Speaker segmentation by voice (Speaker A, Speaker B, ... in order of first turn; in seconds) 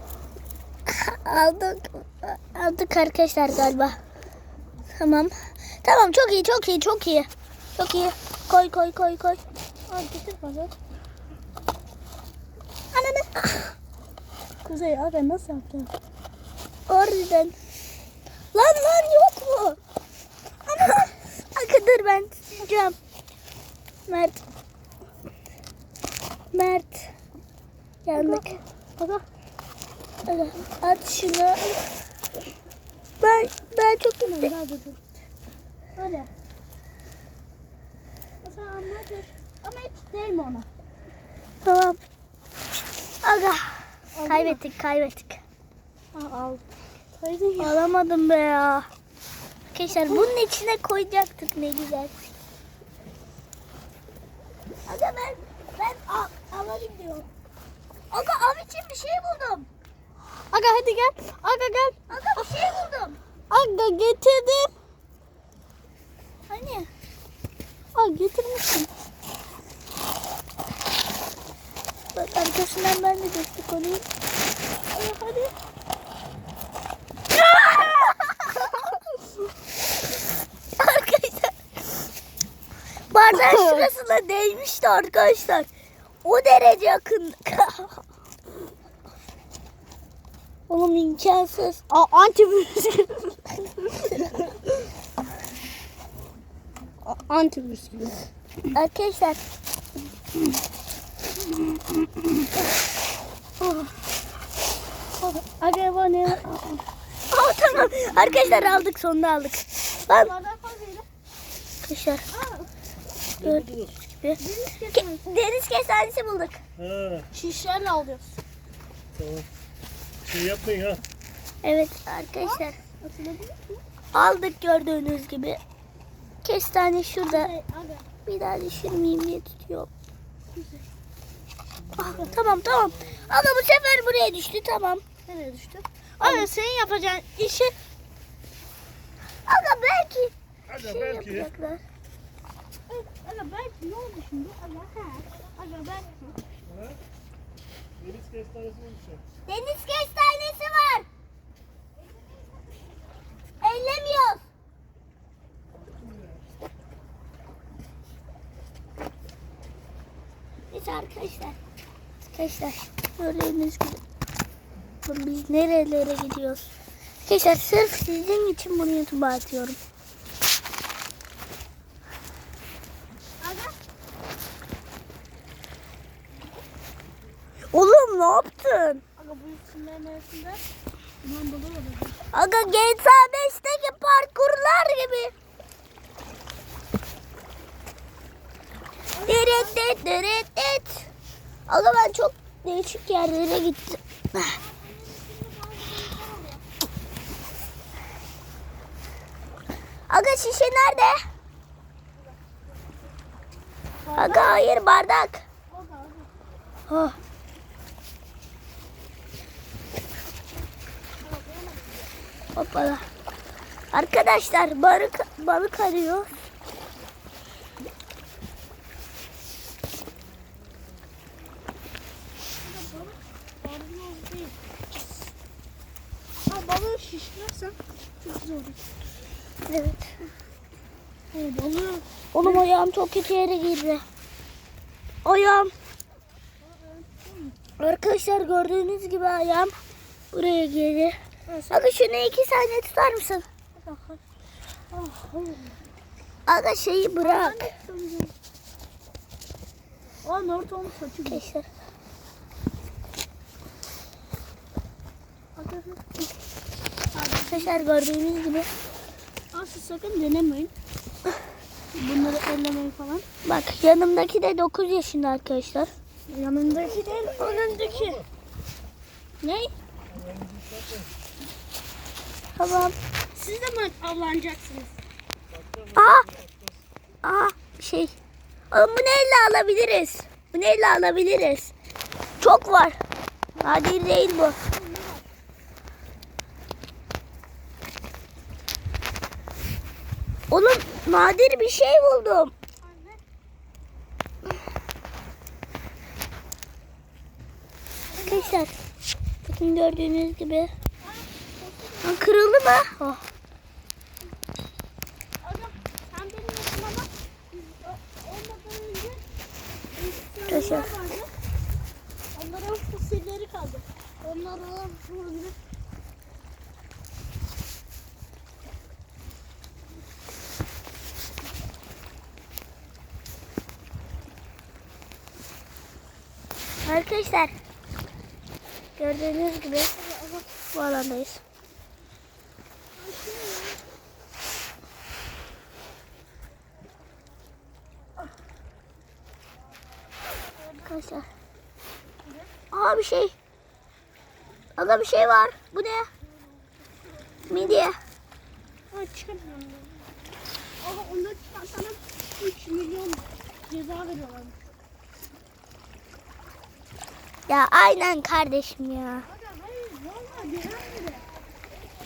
Speaker A: 0.9-4.0, 4.9-9.4, 16.9-17.5, 18.5-19.8, 20.9-22.9, 24.1-24.4, 26.5-27.1, 28.1-28.6, 30.2-31.8, 33.2-34.5, 41.6-42.0, 43.2-45.4, 47.6-48.8, 49.7-52.1, 54.9-57.2, 58.1-59.7, 62.1-63.2, 66.5-66.9, 72.1-74.0, 77.5-78.3, 80.8-81.5, 83.1-85.7, 86.2-88.0, 90.7-91.8, 98.7-99.4, 107.3-110.3, 111.8-112.2, 113.4-114.4, 114.9-116.6, 121.6-122.8, 124.1-125.6, 126.4-127.5, 128.2-129.9, 131.9-135.0, 136.2-136.5, 139.4-141.8, 149.5-151.1, 153.6-154.4, 160.7-161.6, 162.3-164.0, 165.0-166.7, 167.2-169.8, 177.7-179.0, 182.3-185.3, 189.2-191.1, 191.7-194.6, 200.1-201.2, 204.2-205.4, 206.9-207.1, 212.6-213.0, 213.9-216.3, 229.7-230.2, 232.3-234.0, 235.2-235.7, 237.8-239.7, 240.3-241.1, 241.7-243.4, 246.5-247.7, 251.2-251.7, 257.5-258.7, 263.4-265.9, 272.6-272.9, 275.9-276.3, 277.2-278.1, 278.7-281.7, 282.4-283.0, 283.6-284.6, 290.5-292.5, 298.2-298.7, 299.4-300.7, 302.0-303.2, 310.5-310.9, 326.8-327.5, 329.0-329.9, 330.7-331.4, 340.9-341.2, 342.7-343.3, 344.8-346.1, 347.5-348.0, 357.5-359.3
Speaker B: 9.9-10.7, 12.9-13.3, 14.6-15.9, 28.1-29.2, 34.2-35.2, 36.0-36.3, 38.4-40.7, 44.1-44.6, 46.1-46.6, 47.1-47.8, 49.9-50.3, 60.5-62.0, 63.5-64.7, 67.9-68.9, 74.9-75.5, 83.3-83.9, 91.9-94.7, 97.0-98.3, 101.7-102.2, 103.6-103.9, 105.2-106.8, 107.7-108.9, 110.0-111.1, 112.3-112.7, 114.4-115.2, 117.3-118.3, 122.4-123.8, 127.2-128.1, 130.5-130.9, 135.2-137.7, 142.9-146.4, 152.0-153.0, 173.4-173.7, 179.2-180.6, 181.2-182.2, 189.1-189.8, 194.5-196.6, 204.0-204.7, 205.7-206.3, 211.2-212.1, 222.6-224.5, 226.5-228.8, 231.3-232.6, 236.6-237.6, 241.5-241.9, 243.8-244.2, 244.9-245.8, 247.2-248.3, 250.2-251.4, 255.6-256.0, 257.1-257.9, 259.5-260.8, 261.9-263.2, 266.3-268.2, 269.4-269.7, 273.3-274.9, 284.7-285.2, 292.8-293.2, 298.1-298.6, 301.0-302.3, 305.4-309.2, 309.9-311.3, 312.3-315.6, 329.9-330.5, 332.9-333.8, 340.3-340.9, 342.2-342.5, 348.9-349.9, 350.8-354.6, 359.2-361.3
Speaker C: 116.8-117.2, 119.2-119.5, 120.3-121.0, 148.0-149.2, 270.1-271.1, 275.6-276.6